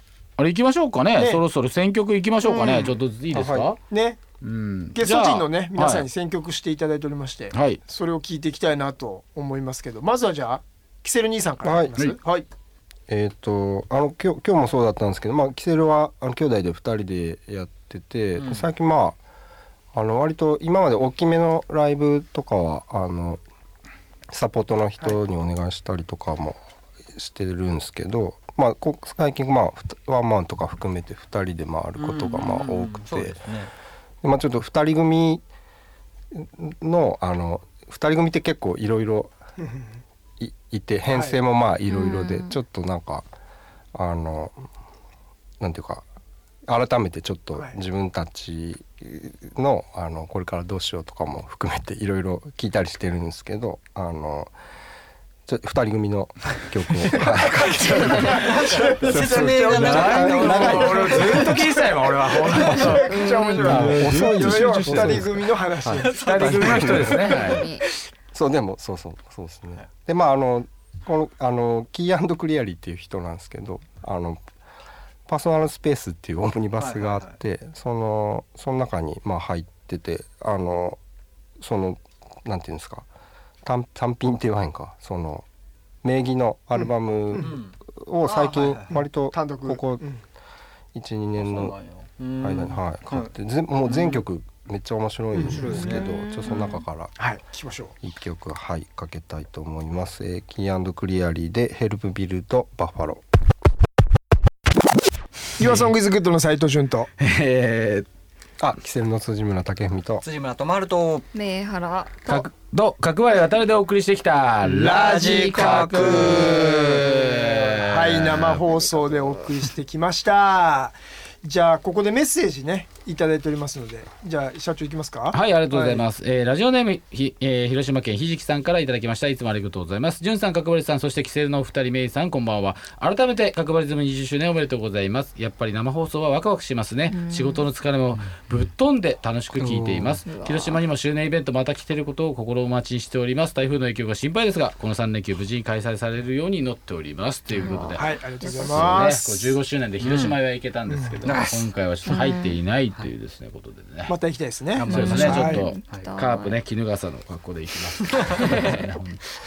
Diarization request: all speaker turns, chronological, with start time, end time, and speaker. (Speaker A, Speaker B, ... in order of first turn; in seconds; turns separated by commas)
Speaker A: 0.4-3.8, Speaker B: 1.1-1.4, Speaker B: 2.4-3.0, Speaker C: 3.3-3.7, Speaker B: 3.9-4.2, Speaker A: 4.4-6.1, Speaker B: 4.9-12.4, Speaker A: 7.5-7.8, Speaker C: 11.6-11.9, Speaker C: 13.1-19.2, Speaker D: 18.4-18.7, Speaker C: 19.9-23.4, Speaker C: 24.3-26.6, Speaker C: 27.1-33.4, Speaker D: 32.0-33.7, Speaker C: 34.2-35.4, Speaker C: 36.3-39.3, Speaker B: 39.6-39.9, Speaker C: 40.4-43.3, Speaker B: 41.1-41.4, Speaker E: 41.9-42.5, Speaker C: 43.9-44.7, Speaker C: 45.6-46.0, Speaker C: 46.7-54.5, Speaker C: 55.5-61.5, Speaker B: 57.1-67.6, Speaker A: 57.7-65.3, Speaker D: 58.0-61.6, Speaker E: 62.9-63.9, Speaker C: 63.6-67.3, Speaker D: 66.0-67.2, Speaker A: 66.2-67.7, Speaker E: 67.3-67.8, Speaker C: 68.3-74.4, Speaker C: 75.2-81.0, Speaker D: 76.8-77.3, Speaker C: 81.6-83.0, Speaker C: 83.6-85.4, Speaker C: 86.0-90.0, Speaker D: 87.4-89.0, Speaker B: 89.3-90.2, Speaker C: 90.9-91.7, Speaker D: 91.4-93.3, Speaker C: 92.4-97.1, Speaker D: 93.9-94.2, Speaker B: 95.3-96.0, Speaker D: 95.3-96.1, Speaker E: 96.0-96.8, Speaker B: 97.2-97.9, Speaker C: 98.0-103.2, Speaker B: 105.6-107.1, Speaker A: 105.6-105.9, Speaker A: 107.2-108.1, Speaker C: 108.6-110.2, Speaker D: 110.2-111.3, Speaker E: 111.3-112.5, Speaker A: 112.2-118.6, Speaker B: 114.6-126.0, Speaker D: 114.8-117.1, Speaker E: 118.6-119.5, Speaker A: 125.3-148.0, Speaker E: 137.1-137.7, Speaker D: 139.6-140.2, Speaker E: 140.2-140.8, Speaker D: 147.5-147.9, Speaker E: 147.6-149.1, Speaker B: 147.9-149.6, Speaker A: 148.6-154.1, Speaker D: 150.0-150.3, Speaker B: 150.9-151.4, Speaker D: 151.2-151.7, Speaker E: 152.1-152.6, Speaker B: 154.1-155.7, Speaker D: 154.7-156.1, Speaker A: 154.9-159.2, Speaker E: 154.9-156.6, Speaker D: 158.0-158.6, Speaker E: 158.3-158.8